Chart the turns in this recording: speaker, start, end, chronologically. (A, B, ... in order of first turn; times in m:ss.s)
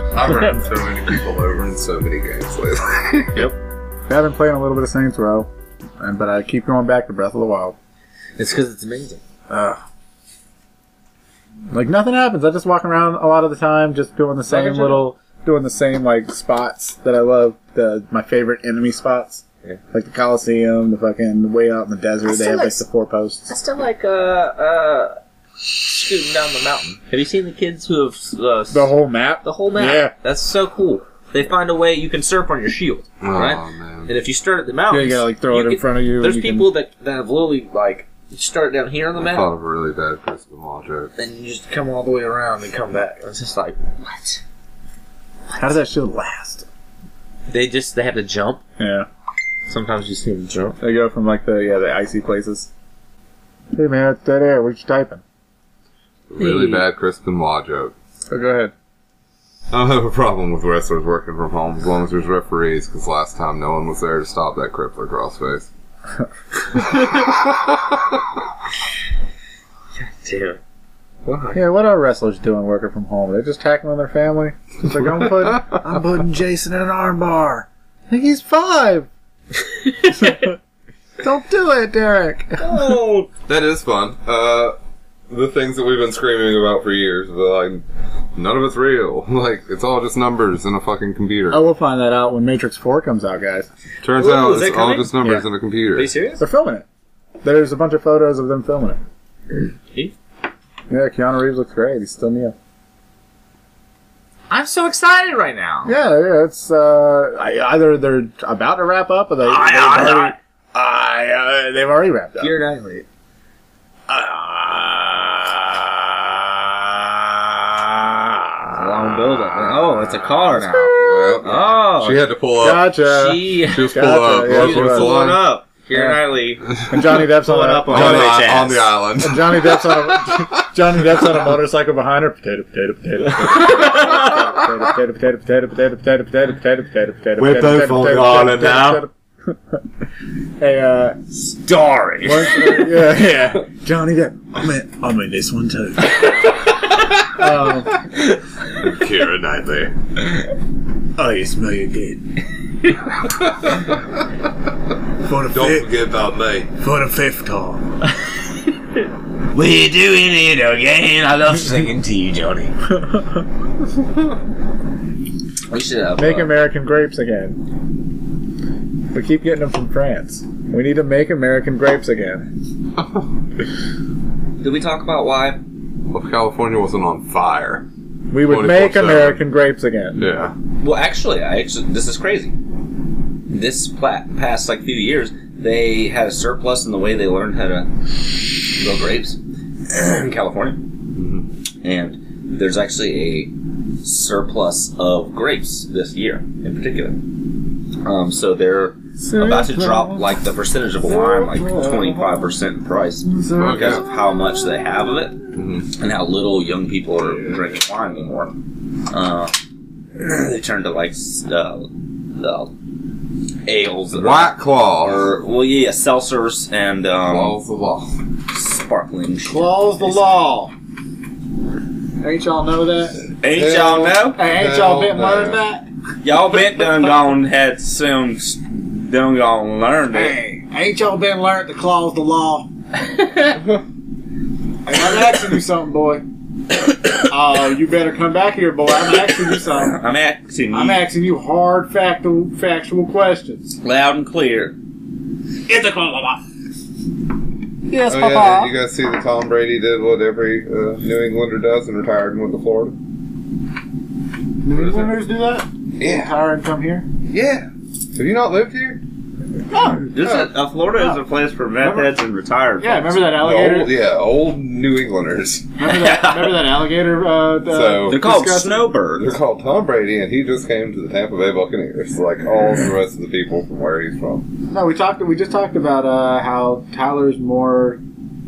0:00.1-0:03.5 A
0:04.1-0:07.8 B
0:08.4-0:09.2 C
0:09.5-0:09.8 B
0:11.7-0:23.5 B
0:14.5-0:15.1 C
0:22.3-0:22.8 C
0:23.5-0:39.5 C
0:28.7-0:30.1 B
0:33.2-0:34.1 A
0:34.9-0:36.7 B
0:39.2-0:41.1 A
0:41.2-0:44.4 C
0:45.6-0:46.7 B
0:47.5-0:48.6 C
0:48.8-0:49.1 B
0:49.7-0:50.8 C
0:50.8-0:52.7 B
0:53.7-0:55.2 B
0:56.3-0:57.9 A
0:56.4-0:56.8 C
0:58.3-0:58.7 B
0:59.7-1:05.7 A
1:06.8-1:07.1 C
1:07.1-1:08.2 A
1:10.0-1:10.6 C
1:11.2-1:11.6 C
1:11.5-1:19.1 B
1:20.1-1:20.6 B
1:21.2-1:23.0 B
1:22.6-1:23.3 C
1:23.5-1:24.8 A
1:25.3-1:27.8 A
1:28.4-1:31.6 A
1:31.5-1:33.7 B
1:34.0-1:36.1 A
1:34.2-1:35.1 C
1:36.0-1:36.4 C
1:36.4-1:36.8 B
1:37.4-1:39.0 B
1:40.9-1:42.6 B
1:44.5-1:45.9 C
1:45.9-1:52.5 B
1:49.4-1:50.4 C
1:52.4-1:53.0 C
1:54.1-1:58.9 B
1:58.7-2:02.3 C
2:00.5-2:01.5 B
2:00.9-2:02.9 A
2:02.6-2:05.2 B
2:03.1-2:03.9 C
2:03.6-2:05.4 A
2:04.4-2:06.6 C
2:05.9-2:06.2 B
2:06.7-2:07.2 A
2:06.9-2:08.5 B
2:07.4-2:08.9 C
2:07.9-2:10.6 A
2:09.2-2:19.8 B
2:13.2-2:14.4 C
2:17.4-2:19.0 C
2:20.6-2:21.2 B
2:21.3-2:22.8 C
2:22.2-2:26.5 B
2:27.3-2:28.0 B
2:28.7-2:29.9 A
2:31.2-2:32.4 B
2:33.2-2:34.0 A
2:35.2-2:35.9 B
2:35.5-2:36.7 A
2:36.8-2:38.0 B
2:39.5-2:42.8 C
2:42.9-2:43.5 B
2:45.7-2:46.5 C
2:46.2-2:47.7 B
2:49.1-2:52.5 B
2:54.6-2:55.6 C
2:56.1-2:57.8 A
2:58.3-3:00.3 B
2:58.4-2:59.4 A
3:00.2-3:00.5 A
3:00.8-3:02.6 C
3:03.5-3:10.9 C
3:11.2-3:11.4 A
3:11.8-3:17.2 C
3:18.0-3:25.4 C
3:19.2-3:20.3 B
3:21.0-3:22.5 B
3:23.3-3:24.6 B
3:23.6-3:24.0 A
3:25.5-3:25.9 A
3:25.9-3:28.5 C
3:29.1-3:29.6 C
3:30.2-3:32.7 C
3:33.7-3:37.6 C
3:34.1-3:35.3 A
3:37.3-3:38.1 A
3:38.5-3:40.3 C
3:39.5-3:40.7 B
3:42.2-3:43.2 B
3:43.4-3:44.4 C
3:43.5-3:45.6 A
3:44.4-3:45.9 B
3:46.2-3:50.4 C
3:50.1-3:52.7 B
3:54.8-3:56.2 B
3:57.2-4:00.0 B
3:59.6-4:01.1 C
4:00.7-4:03.8 B
4:03.8-4:04.8 C
4:05.7-4:06.4 B
4:07.9-4:08.7 B
4:08.1-4:13.0 A
4:14.6-4:17.1 B
4:14.7-4:15.1 A
4:16.0-4:16.3 A
4:17.3-4:19.0 A
4:19.7-4:23.3 C
4:20.2-4:20.5 A
4:21.8-4:22.2 B
4:22.8-4:23.9 B
4:23.3-4:25.7 A
4:25.8-4:28.9 B
4:25.8-4:26.7 C
4:27.7-4:28.4 A
4:28.0-4:29.4 C
4:29.2-4:34.5 A
4:34.7-4:38.0 B